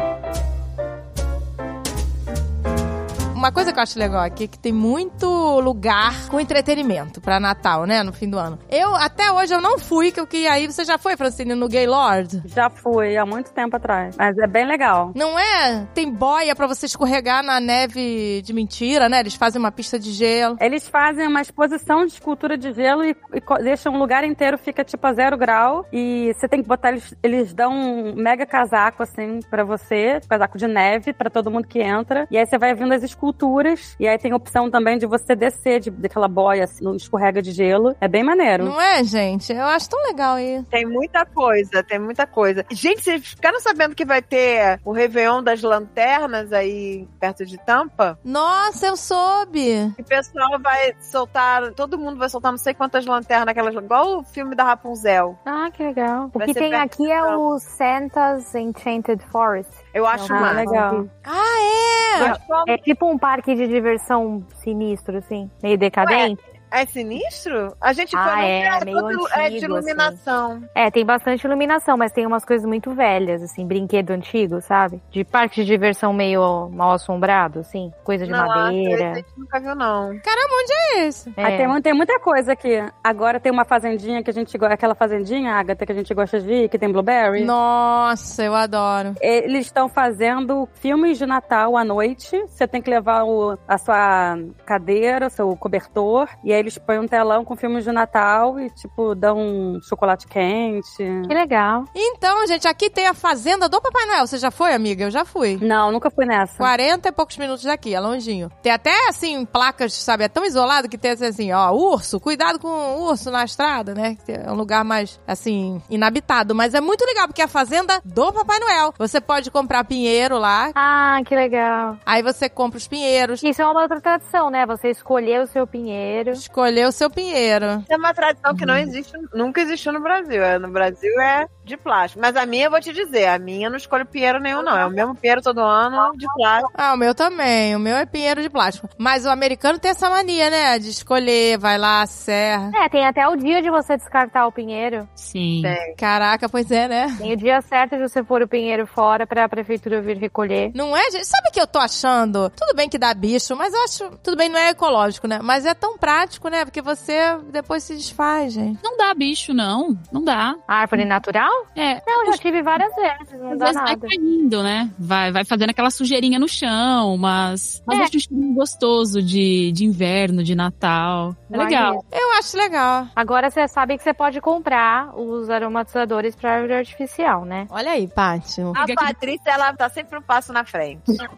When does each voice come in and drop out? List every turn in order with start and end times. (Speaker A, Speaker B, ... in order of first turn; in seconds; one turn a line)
Speaker A: 3.3-12.4
Speaker B: 12.4-15.2
Speaker A: 15.1-20.6
Speaker B: 20.6-38.7
Speaker A: 38.6-40.7
Speaker C: 40.7-48.2
Speaker A: 48.2-50.0
Speaker C: 50.0-55.4
Speaker D: 55.5-61.1
Speaker C: 56.4-57.4
Speaker C: 59.9-60.7
Speaker B: 60.3-61.1
Speaker A: 61.2-62.3
Speaker C: 62.2-62.8
Speaker D: 62.2-66.4
Speaker C: 66.0-70.7
Speaker D: 68.1-70.2
Speaker D: 70.8-79.2
Speaker C: 78.2-80.2
Speaker A: 80.2-81.4
Speaker D: 81.4-81.8
Speaker B: 81.4-87.5
Speaker A: 87.4-89.2
Speaker B: 89.2-101.3
Speaker D: 101.3-101.9
Speaker A: 101.9-105.6
Speaker B: 105.6-106.7
Speaker A: 106.6-120.8
Speaker D: 120.8-122.0
Speaker A: 122.1-123.5
Speaker D: 123.4-126.4
Speaker A: 126.3-127.8
Speaker C: 127.9-136.7
Speaker D: 134.6-134.9
Speaker A: 136.7-142.8
Speaker D: 142.7-145.1
Speaker E: 145.2-145.8
Speaker C: 145.6-145.9
Speaker A: 146.0-147.3
Speaker D: 147.2-150.7
Speaker A: 150.7-158.8
Speaker E: 158.8-160.6
Speaker D: 160.7-164.1
Speaker E: 161.8-162.4
Speaker E: 163.5-172.0
Speaker D: 171.5-172.0
Speaker A: 172.1-173.1
Speaker D: 173.2-177.7
Speaker A: 177.7-178.8
Speaker E: 178.8-179.1
Speaker C: 178.8-181.2